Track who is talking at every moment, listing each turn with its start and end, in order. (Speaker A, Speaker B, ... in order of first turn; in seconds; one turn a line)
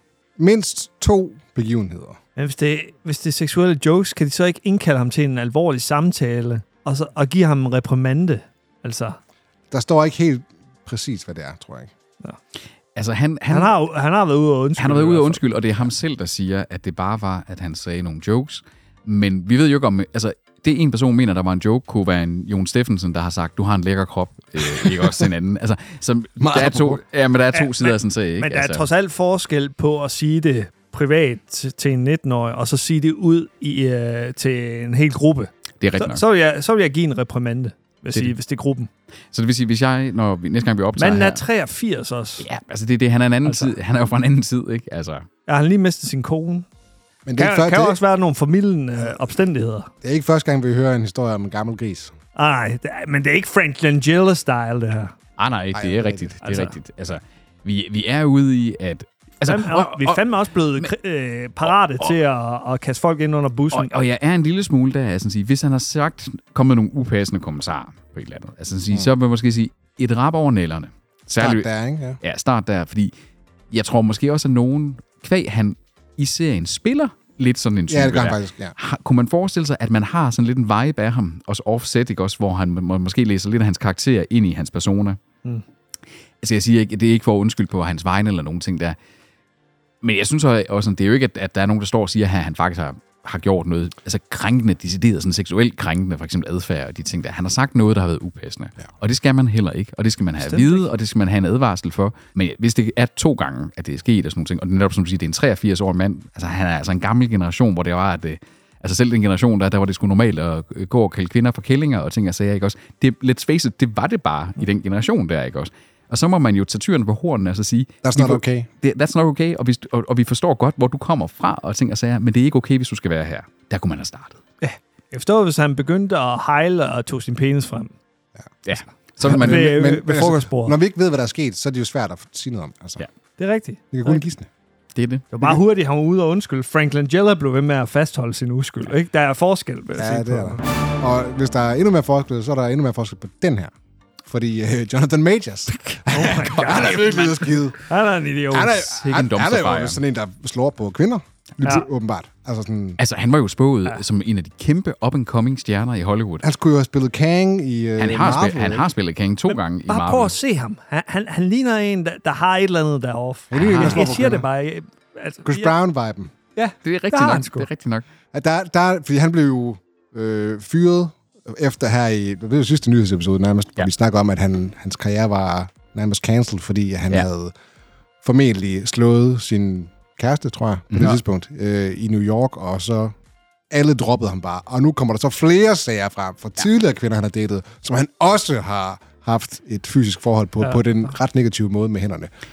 Speaker A: 0.4-2.2
Speaker B: 2.4-9.2
Speaker A: 9.7-11.9
Speaker C: 12.9-13.7
Speaker B: 13.5-15.6
Speaker C: 14.8-28.9
Speaker A: 24.8-25.1
Speaker A: 26.4-27.0
Speaker B: 27.5-38.9
Speaker C: 35.8-36.2
Speaker C: 39.3-41.4
Speaker B: 41.0-42.5
Speaker C: 42.4-45.2
Speaker B: 43.4-43.8
Speaker B: 45.5-46.7
Speaker A: 47.2-48.0
Speaker B: 47.4-49.9
Speaker A: 50.0-52.1
Speaker B: 52.4-55.1
Speaker C: 55.4-60.2
Speaker A: 55.7-56.3
Speaker B: 56.4-56.7
Speaker B: 59.5-63.9
Speaker C: 63.7-71.7
Speaker A: 71.4-72.2
Speaker C: 72.2-73.1
Speaker C: 73.7-85.2
Speaker A: 77.9-78.8
Speaker C: 86.4-89.0
Speaker C: 90.0-124.4
Speaker B: 100.4-100.8
Speaker A: 118.0-118.7
Speaker B: 124.6-127.9
Speaker C: 128.7-129.8
Speaker A: 129.2-133.0
Speaker B: 129.3-130.8
Speaker B: 133.4-134.2
Speaker A: 133.9-134.5
Speaker C: 134.9-135.3
Speaker B: 135.3-140.6
Speaker A: 140.0-143.7
Speaker A: 144.2-147.8
Speaker B: 145.7-148.8
Speaker A: 148.5-153.0
Speaker C: 148.8-150.0
Speaker B: 151.6-151.9
Speaker C: 153.0-156.4
Speaker A: 156.4-158.9
Speaker C: 158.0-160.3
Speaker B: 159.5-165.7
Speaker A: 163.5-164.4
Speaker C: 163.5-164.1
Speaker A: 165.4-166.3
Speaker B: 166.6-167.7
Speaker C: 166.8-168.0
Speaker A: 168.3-177.5
Speaker A: 178.2-183.1
Speaker C: 180.9-181.2
Speaker A: 183.7-192.3